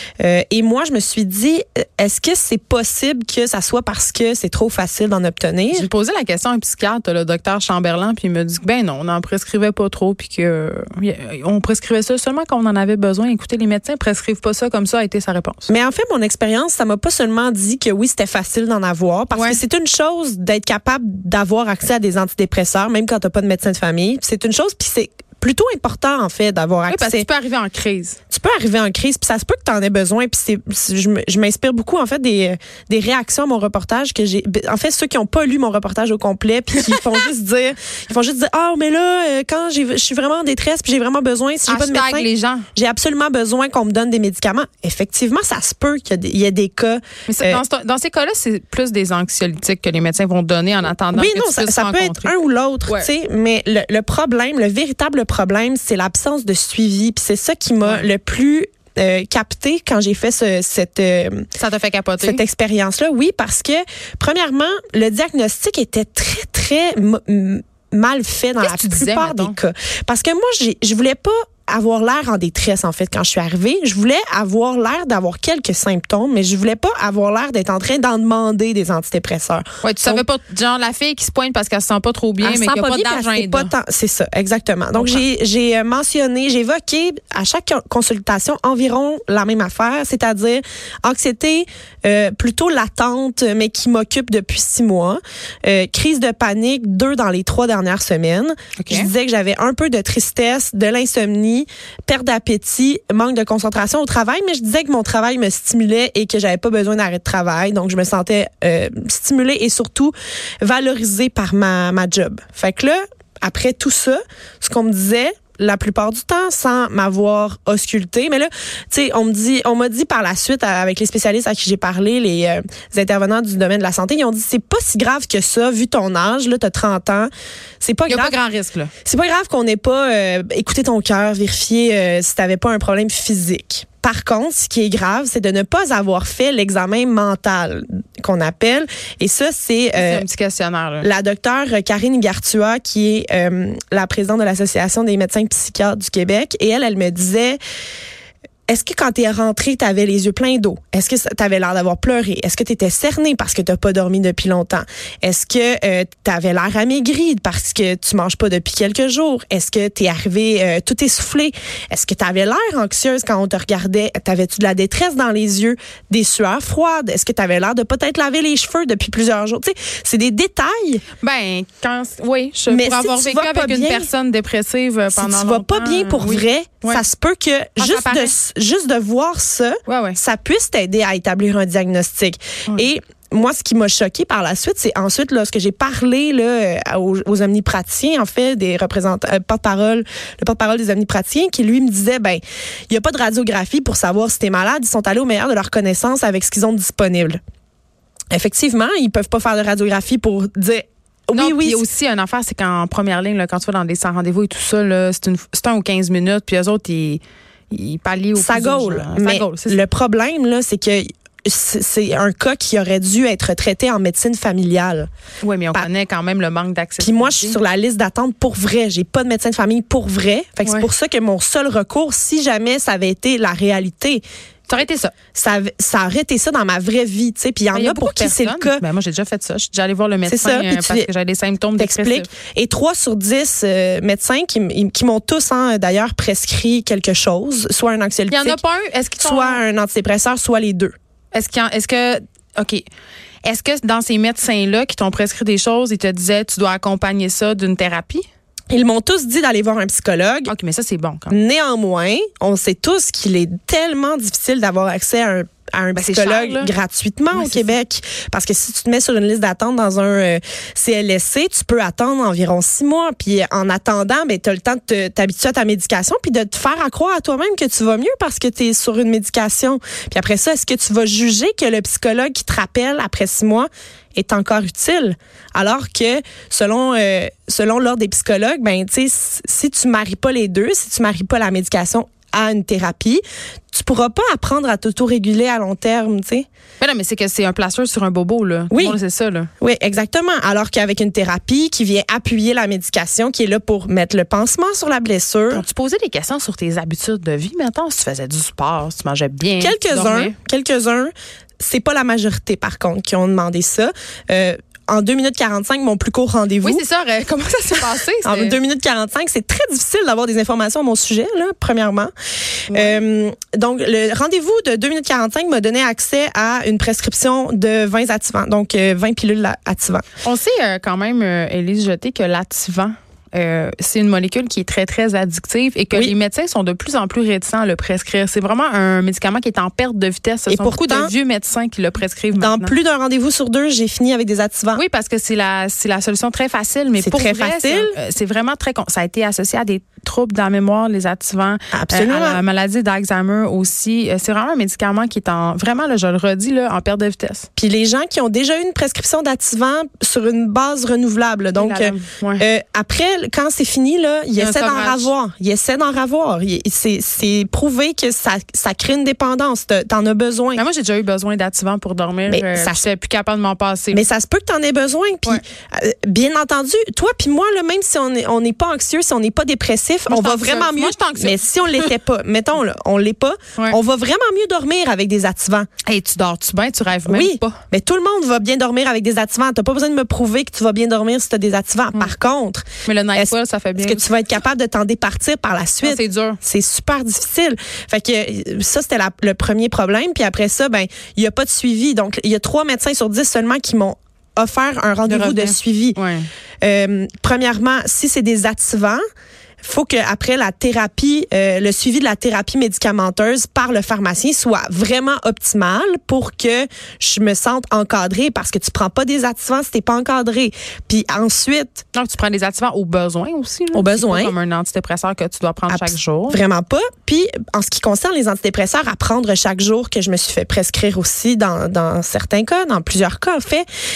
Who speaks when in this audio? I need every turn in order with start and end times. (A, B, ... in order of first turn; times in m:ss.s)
0:00.2-0:05.9 A
0:05.7-0:15.7 B
0:15.7-0:27.3 A
0:19.3-0:19.6 B
0:26.9-0:28.2 B
0:28.3-0:47.6 A
0:41.7-0:42.7 B
0:47.3-0:52.3 B
0:51.1-1:01.5 A
0:57.8-0:58.1 B
1:01.6-1:02.4 B
1:02.2-1:20.2 A
1:08.6-1:09.6 B
1:19.8-1:23.7 B
1:22.4-2:08.4 A
1:24.9-1:25.2 B
1:38.8-1:39.1 B
2:08.1-2:08.9 B
2:09.0-2:20.2 A
2:20.0-2:21.1 B
2:21.0-2:27.6 A
2:28.7-2:51.0 A
2:51.2-2:57.0 B
2:52.7-2:54.1 A
2:55.1-3:17.4 A
2:57.8-2:58.3 B
2:59.9-3:00.2 B
3:18.3-3:21.8 A
3:21.3-3:29.8 B
3:28.3-3:35.1 A
3:35.4-3:37.6 B
3:37.0-3:44.2 A
3:40.6-3:40.9 B
3:44.7-3:45.1 B
3:45.3-3:48.8 A
3:47.7-3:52.3 B
3:50.2-3:51.1 A
3:51.8-3:58.6 A
3:58.3-3:59.6 B
3:59.2-4:00.9 A
4:01.3-4:02.8 B
4:03.4-4:08.2 B
4:08.7-4:10.5 A
4:10.5-4:11.4 B
4:11.3-4:46.5 A
4:16.0-4:16.7 B
4:17.3-4:17.7 B
4:46.8-4:49.5 B
4:48.7-4:49.0 A
4:49.6-4:55.6 A
4:55.5-5:00.4 B
4:59.6-5:06.8 A
5:06.6-5:08.6 B
5:08.2-5:12.1 A
5:12.7-5:13.0 B
5:12.7-5:20.0 A
5:20.2-5:32.8 B
5:30.5-5:31.1 A
5:32.3-5:34.8 A
5:34.7-5:47.5 B
5:37.0-5:38.0 A
5:41.7-5:42.4 A
5:47.6-6:00.6 A
5:51.6-5:52.5 B
5:54.4-5:55.1 B
6:00.5-6:04.0 B
6:02.3-6:02.9 A
6:03.9-6:15.7 A
6:10.1-6:11.9 B
6:15.9-6:17.6 B
6:17.0-6:36.0 A
6:22.9-6:24.1 B
6:25.8-6:26.4 B
6:35.1-6:36.3 B
6:36.6-6:39.0 A
6:39.6-6:51.8 A
6:51.9-6:56.4 B
6:53.7-6:54.3 A
6:55.7-7:03.6 A